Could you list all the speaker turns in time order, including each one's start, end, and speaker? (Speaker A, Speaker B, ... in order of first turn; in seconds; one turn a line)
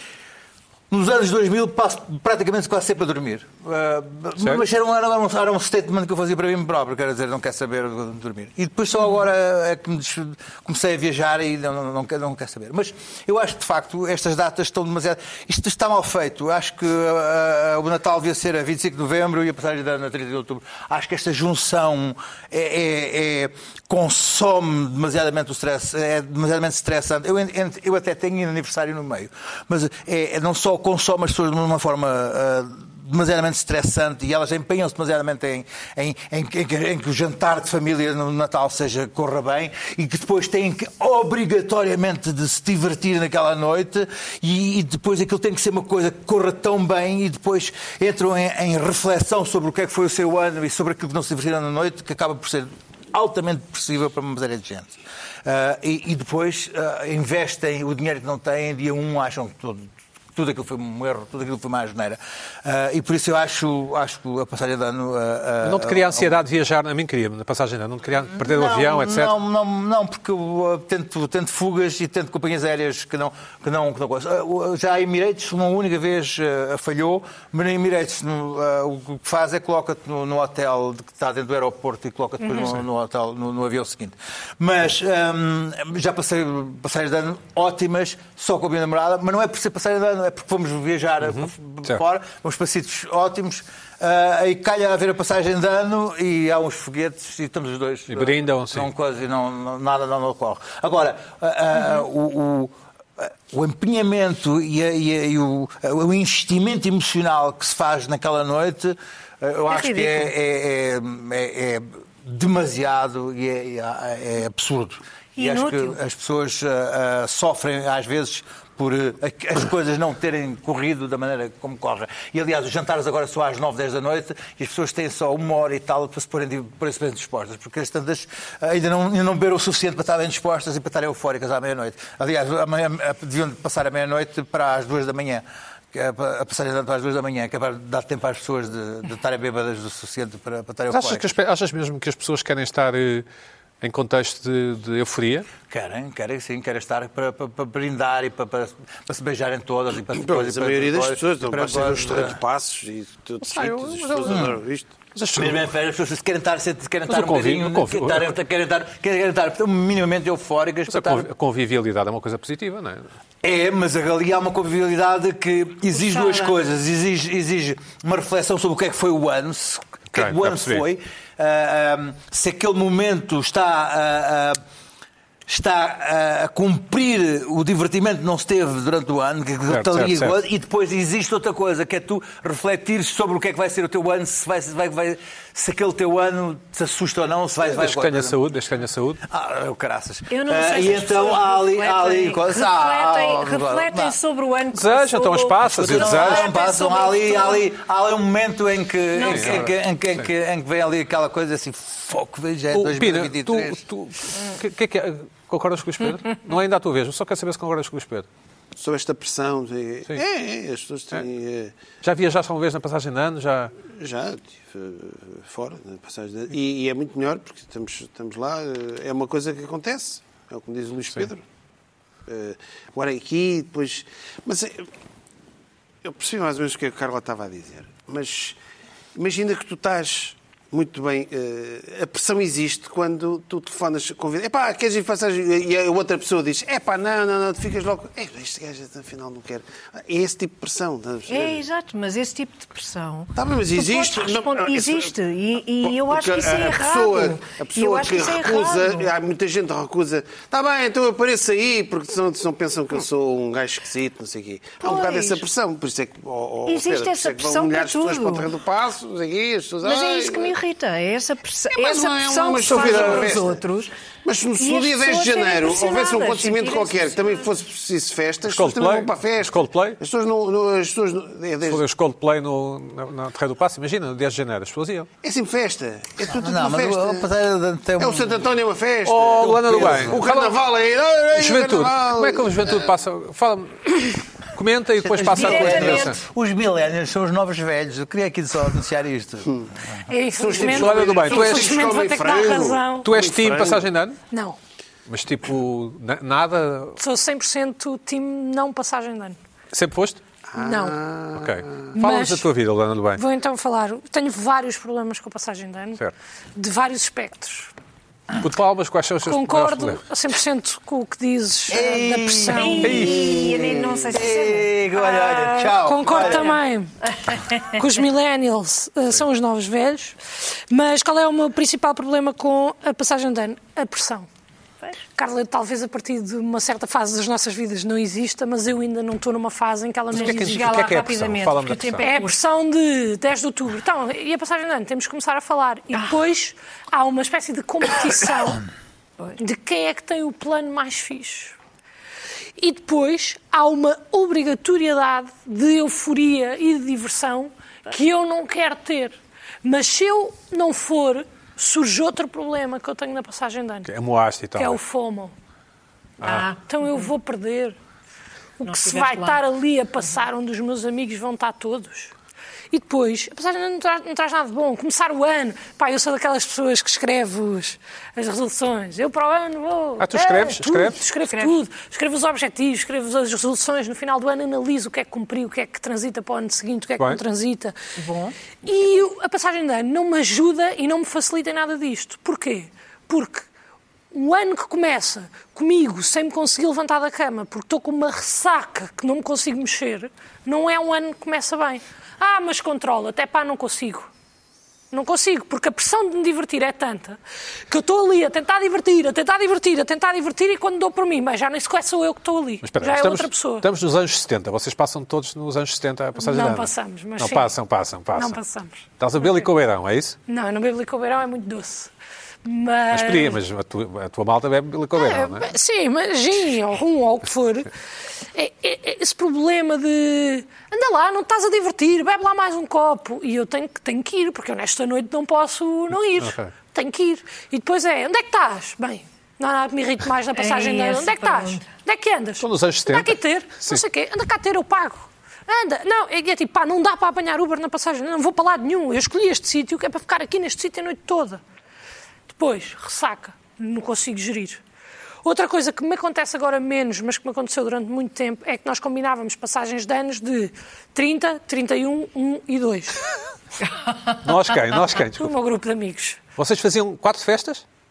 Speaker A: 0.9-66.3
Speaker B: 65.6-69.3
Speaker A: 68.3-141.3
Speaker B: 91.3-92.0
Speaker B: 98.1-98.9
Speaker C: 109.7-110.3
Speaker C: 115.3-116.0
Speaker B: 140.9-143.2
Speaker B: 143.8-145.5
Speaker A: 145.7-152.4
Speaker D: 150.2-154.9
Speaker B: 153.4-154.5
Speaker A: 154.3-154.5
Speaker B: 155.1-155.6
Speaker A: 155.3-161.3
Speaker B: 157.1-158.3
Speaker B: 160.9-163.1
Speaker A: 163.4-174.6
Speaker C: 165.9-166.5
Speaker B: 170.1-170.8
Speaker A: 175.5-188.4
Speaker B: 179.7-180.4
Speaker B: 187.7-189.2
Speaker A: 189.2-194.2
Speaker C: 190.3-197.7
Speaker B: 194.7-196.4
Speaker A: 195.8-203.8
Speaker C: 199.1-199.7
Speaker B: 199.2-199.7
Speaker B: 202.7-208.3
Speaker D: 208.8-211.7
Speaker B: 212.0-213.7
Speaker D: 213.9-221.4
Speaker D: 222.3-224.9
Speaker D: 226.0-228.6
Speaker D: 229.1-241.6
Speaker C: 241.3-249.1
Speaker D: 243.3-245.1
Speaker D: 245.8-260.5
Speaker C: 254.8-255.4
Speaker C: 256.6-258.5
Speaker C: 259.8-263.9
Speaker D: 261.7-263.6
Speaker D: 264.2-271.8
Speaker C: 264.6-267.5
Speaker B: 268.5-270.0
Speaker B: 271.6-275.1
Speaker D: 275.2-277.3
Speaker A: 276.3-278.4
Speaker D: 278.0-282.9
Speaker B: 279.0-280.6
Speaker A: 279.4-280.2
Speaker B: 281.3-286.2
Speaker A: 285.0-289.6
Speaker C: 285.3-286.1
Speaker E: 290.1-293.1
Speaker D: 290.4-293.9
Speaker B: 290.5-291.9
Speaker B: 293.0-294.2
Speaker E: 294.3-294.6
Speaker B: 295.1-297.0
Speaker E: 297.0-299.4
Speaker B: 299.7-300.2
Speaker D: 300.5-301.9
Speaker E: 300.6-301.0
Speaker B: 301.3-303.2
Speaker E: 301.9-302.5
Speaker E: 303.1-306.0
Speaker E: 306.5-307.7
Speaker B: 308.4-310.0
Speaker E: 309.2-313.0
Speaker A: 311.7-316.5
Speaker C: 312.5-315.4
Speaker B: 312.8-313.2
Speaker E: 315.6-316.9
Speaker C: 316.1-316.6
Speaker C: 317.1-317.8
Speaker E: 317.6-320.2
Speaker E: 320.7-324.3
Speaker E: 325.1-330.9
Speaker B: 330.1-332.1
Speaker C: 330.1-332.4
Speaker E: 332.0-338.6
Speaker E: 339.4-341.5
Speaker E: 342.6-353.9
Speaker B: 353.9-354.8
Speaker E: 354.6-355.3
Speaker B: 356.2-356.5
Speaker C: 356.2-357.1
Speaker E: 356.4-357.8
Speaker E: 358.6-362.1
Speaker C: 358.6-359.4
Speaker E: 362.7-377.8
Speaker B: 370.0-371.0
Speaker C: 371.3-371.6
Speaker C: 378.0-378.4
Speaker E: 378.6-383.5
Speaker E: 384.1-394.1
Speaker E: 394.9-403.7
Speaker B: 402.6-408.4
Speaker E: 406.1-407.5
Speaker E: 408.1-409.5
Speaker B: 409.0-410.2
Speaker E: 410.3-411.9
Speaker E: 412.4-413.4
Speaker B: 412.9-415.5
Speaker E: 414.9-417.7
Speaker E: 418.3-441.4
Speaker B: 426.2-426.5
Speaker C: 430.3-431.7
Speaker B: 432.4-433.8
Speaker E: 442.3-444.6
Speaker E: 445.2-453.0
Speaker B: 454.2-455.3
Speaker E: 455.0-456.2
Speaker B: 456.4-457.6